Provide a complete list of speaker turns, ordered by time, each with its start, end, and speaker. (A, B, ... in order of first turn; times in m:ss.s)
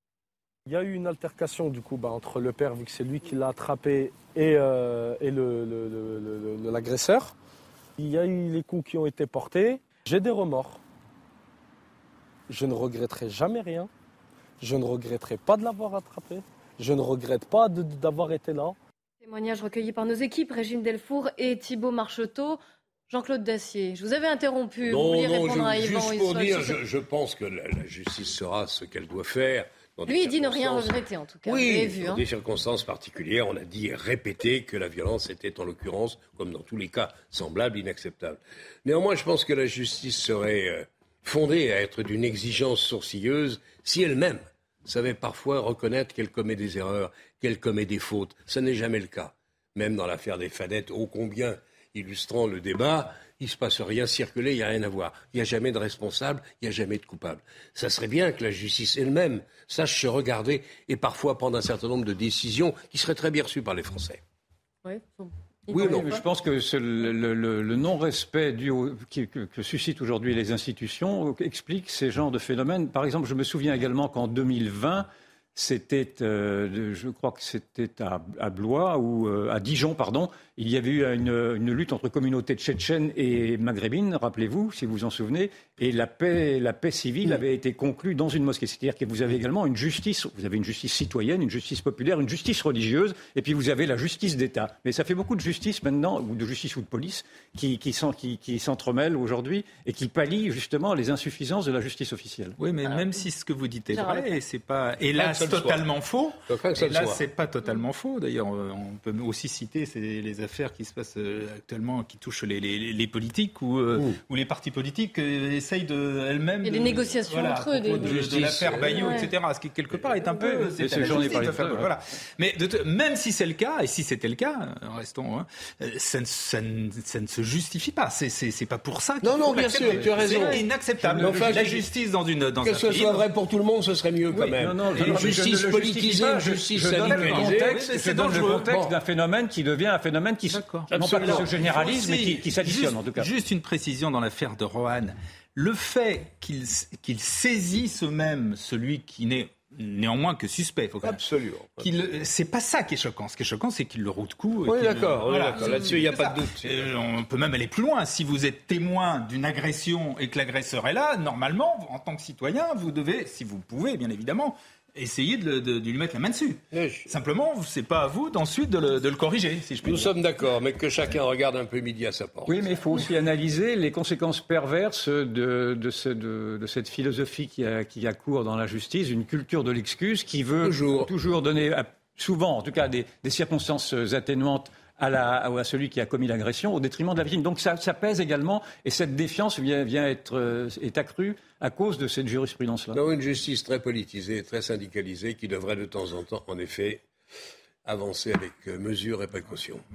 0:00.7-0:07.4 A
0:08.0-0:10.8 A
0:12.5-0:13.9 A
0:14.6-0:18.8 A
0:19.2-0:26.8 B
0:24.8-1:04.2 C
0:30.1-0:32.2 B
1:04.8-1:06.2 B
1:05.7-1:06.1 C
1:05.8-1:42.6 D
1:42.6-2:13.3 E
1:42.8-1:43.2 B
1:43.9-1:44.4 B
1:45.1-1:45.9 C
1:46.5-1:47.2 C
1:54.0-1:54.2 C
1:56.6-1:58.2 B
1:57.9-1:59.3 C
1:58.9-1:59.3 B
1:59.9-2:00.2 C
2:00.2-2:01.9 D
2:00.9-2:01.4 C
2:09.2-2:11.9 C
2:09.8-2:10.5 D
2:11.0-2:11.7 D
2:12.6-2:17.8 C
2:14.3-2:23.3 D
2:15.0-2:15.3 E
2:16.8-2:18.7 E
2:18.5-2:18.9 C
2:20.5-2:31.2 E
2:31.0-2:31.9 C
2:31.8-2:50.1 E
2:34.6-2:36.9 C
2:46.7-2:47.1 C
2:49.8-2:52.6 C
2:52.5-3:13.0 D
3:00.6-3:01.1 C
3:12.9-3:17.0 C
3:17.8-3:19.8 C